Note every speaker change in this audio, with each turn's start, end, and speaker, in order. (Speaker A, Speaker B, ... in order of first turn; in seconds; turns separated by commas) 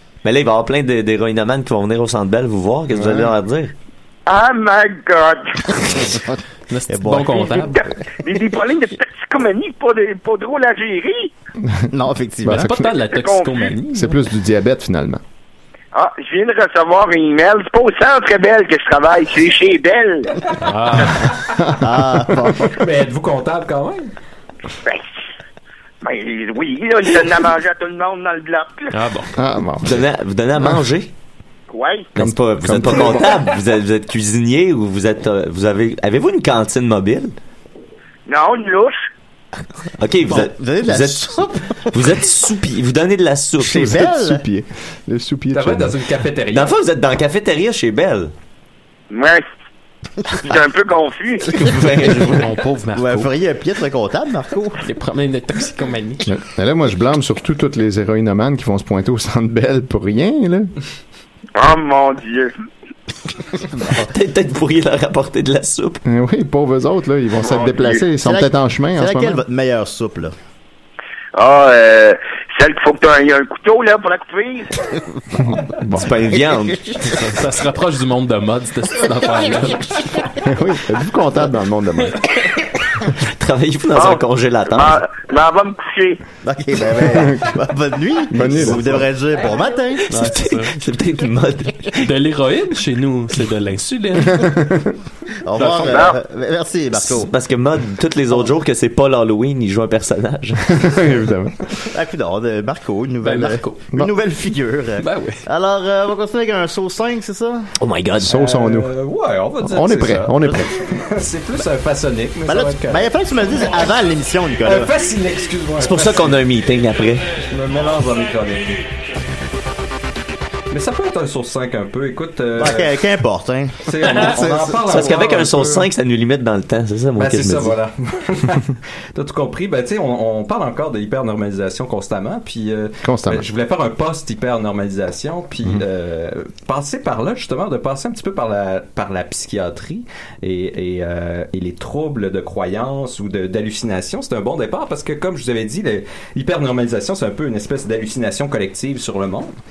Speaker A: 0.2-3.7, Speaker B: 2.9-3.3, Speaker C: 4.2-6.0, Speaker D: 6.7-7.8, Speaker E: 6.9-7.7, Speaker C: 7.7-11.3, Speaker E: 11.9-12.7, Speaker B: 12.4-12.9, Speaker D: 12.4-14.2, Speaker C: 13.1-13.7, Speaker B: 13.9-15.2, Speaker C: 15.9-20.5, Speaker D: 20.6-21.4, Speaker E: 21.8-22.8, Speaker F: 22.7-24.1, Speaker C: 26.0-28.9, Speaker D: 28.9-29.4, Speaker B: 29.4-30.0, Speaker A: 29.8-31.1, Speaker C: 31.7-32.1, Speaker A: 32.1-37.3, Speaker B: 32.1-33.5, Speaker C: 38.3-39.0, Speaker A: 40.0-41.4, Speaker E: 40.2-42.1, Speaker A: 41.9-44.0, Speaker E: 43.6-44.4, Speaker B: 43.7-46.0, Speaker F: 45.5-46.7, Speaker A: 46.5-48.3, Speaker C: 49.1-49.5, Speaker C: 50.3-51.5, Speaker A: 51.5-52.5, Speaker D: 52.0-53.3, Speaker E: 52.9-54.8, Speaker D: 54.8-56.3, Speaker B: 56.2-60.7, Speaker C: 61.5-62.5, Speaker A: 63.8-66.0, Speaker B: 66.0-69.4, Speaker C: 67.4-68.0, Speaker E: 68.2-70.3, Speaker C: 71.3-74.7, Speaker B: 75.4-76.1, Speaker A: 75.8-77.2, Speaker D: 77.1-80.3, Speaker B: 80.4-82.2, Speaker A: 83.2-85.0, Speaker C: 84.7-86.2, Speaker E: 86.4-90.2, Speaker B: 87.1-87.5, Speaker B: 88.3-89.0, Speaker D: 90.1-90.7, Speaker A: 90.1-92.1, Speaker D: 92.0-94.7, Speaker B: 94.4-94.8, Speaker E: 95.4-97.3, Speaker D: 95.5-96.0, Speaker C: 95.9-96.2, Speaker A: 97.1-100.8, Speaker B: 100.7-101.7, Speaker E: 101.9-107.7, Speaker D: 103.2-103.8, Speaker D: 105.0-105.4, Speaker A: 107.8-108.3, Speaker B: 108.2-108.9, Speaker F: 108.3-113.1, Speaker B: 109.6-110.7, Speaker E: 112.5-114.9, Speaker F: 114.6-116.4, Speaker A: 115.8-117.4, Speaker F: 117.4-118.8, Speaker F: 120.7-123.0, Speaker E: 122.6-125.0, Speaker F: 123.8-125.9, Speaker A: 124.8-127.8, Speaker F: 127.2-149.5, Speaker B: 133.0-133.4